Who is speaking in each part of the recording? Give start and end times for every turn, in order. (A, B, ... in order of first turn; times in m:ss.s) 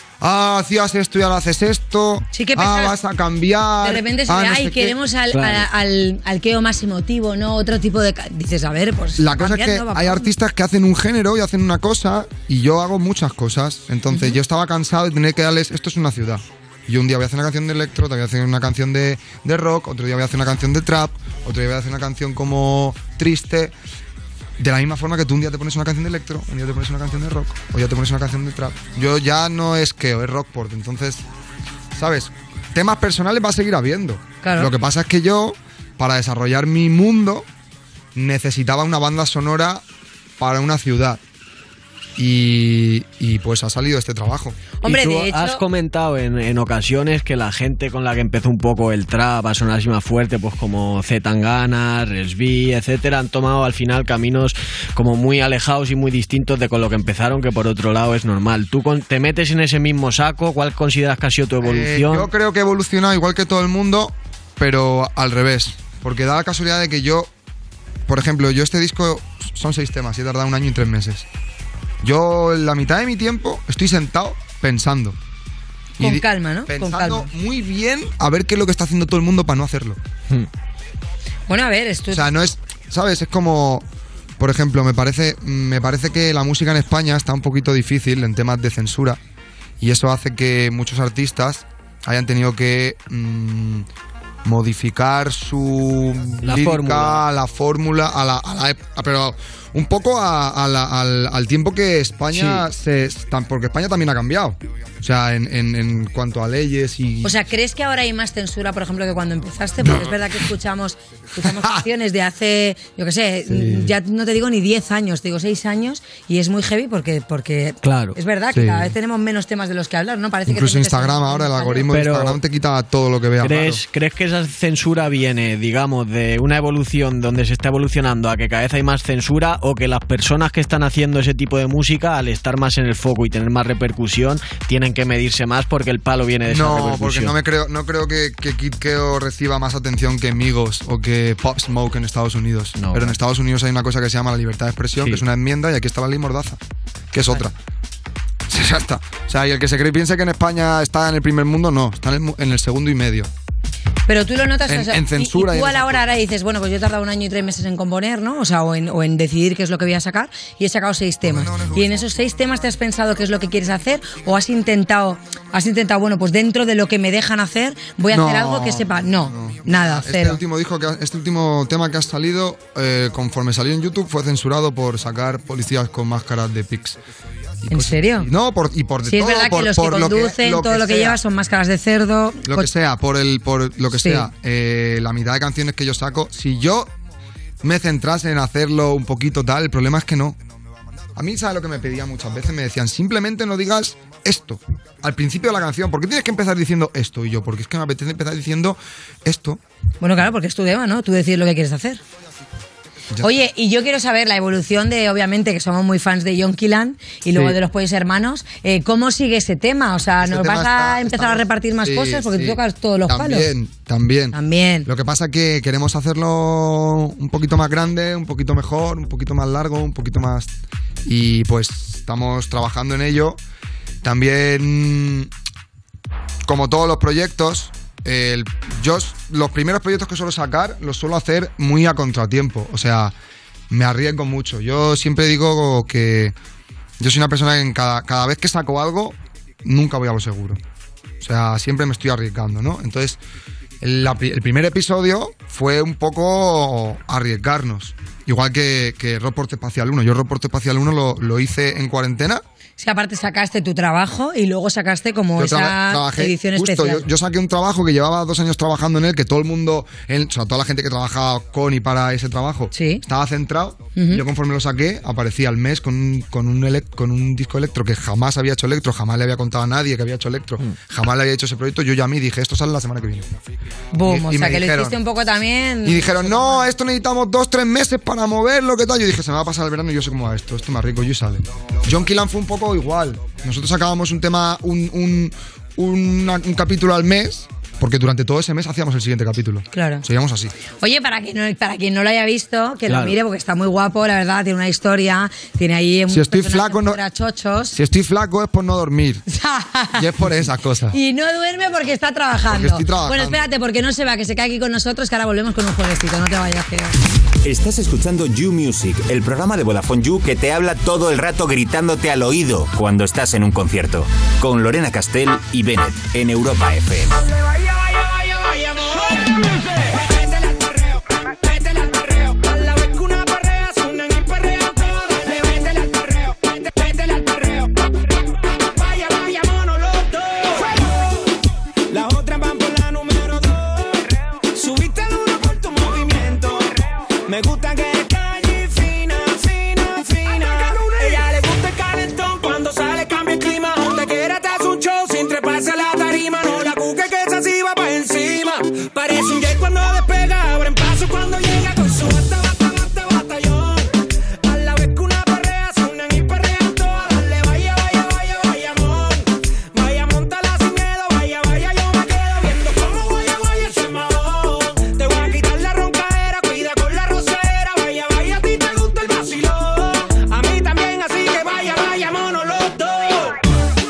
0:00.2-0:05.0 A
0:02.3-0:02.9 B
0:03.8-0:10.3 B
0:05.3-0:05.6 C
0:09.2-0:23.7 A
0:14.1-0:14.4 B
0:24.6-0:31.2 A
0:31.9-0:37.5 A
0:34.4-0:34.7 B
0:38.1-0:39.8 A
0:40.4-0:41.2 A
0:42.2-0:44.6 A
0:44.8-0:45.6 B
0:44.8-1:02.3 C
1:01.6-1:07.3 A
1:08.1-1:11.2 A
1:12.0-1:15.2 A
1:16.0-1:17.3 B
1:16.0-1:20.0 A
1:21.5-1:22.3 B
1:22.1-1:23.8 A
1:24.4-1:29.2 A
1:29.8-1:33.9 A
1:34.4-1:47.3 A
1:36.4-1:37.2 C
1:42.3-1:42.6 C
1:47.2-2:01.9 B
1:53.5-1:53.8 A
1:57.8-1:58.2 C
1:58.5-1:58.9 A
2:00.5-2:03.8 A
2:01.9-2:02.4 C
2:03.4-2:17.3 C
2:16.5-2:26.6 A
2:22.8-2:23.2 C
2:25.0-2:25.2 C
2:27.1-2:27.5 A
2:28.5-2:33.3 A
2:34.1-2:50.4 B
2:34.7-2:36.1 A
2:41.2-2:42.0 A
2:48.1-2:57.0 A
2:57.6-3:01.2 A
2:57.7-2:58.3 B
2:59.1-3:02.7 B
3:02.4-3:06.9 A
3:04.0-3:04.3 B
3:07.6-3:10.4 A
3:11.1-3:19.6 A
3:20.0-3:22.0 B
3:23.2-3:33.5 B
3:30.2-3:34.3 A
3:34.3-3:34.9 B
3:34.8-3:40.5 A
3:41.0-3:43.4 A
3:44.0-3:45.3 A
3:46.4-3:53.1 A
3:53.7-3:56.3 A
3:57.0-4:00.6 A
4:01.2-4:03.2 A
4:03.8-4:12.4 A
4:12.8-4:17.1 B
4:15.4-4:33.3 A
4:22.7-4:23.0 B
4:24.0-4:24.2 B
4:33.9-4:36.7 B
4:34.0-4:35.0 A
4:35.8-4:50.6 A
4:49.7-4:50.0 B
4:50.7-4:57.8 B
4:52.9-4:53.2 C
4:56.1-4:57.0 A
4:57.7-4:59.2 A
4:59.3-5:00.1 B
5:00.0-5:01.0 A
5:00.9-5:06.9 B
5:02.5-5:03.4 A
5:07.4-5:17.2 D
5:17.3-5:31.2 E
5:31.9-6:13.4 E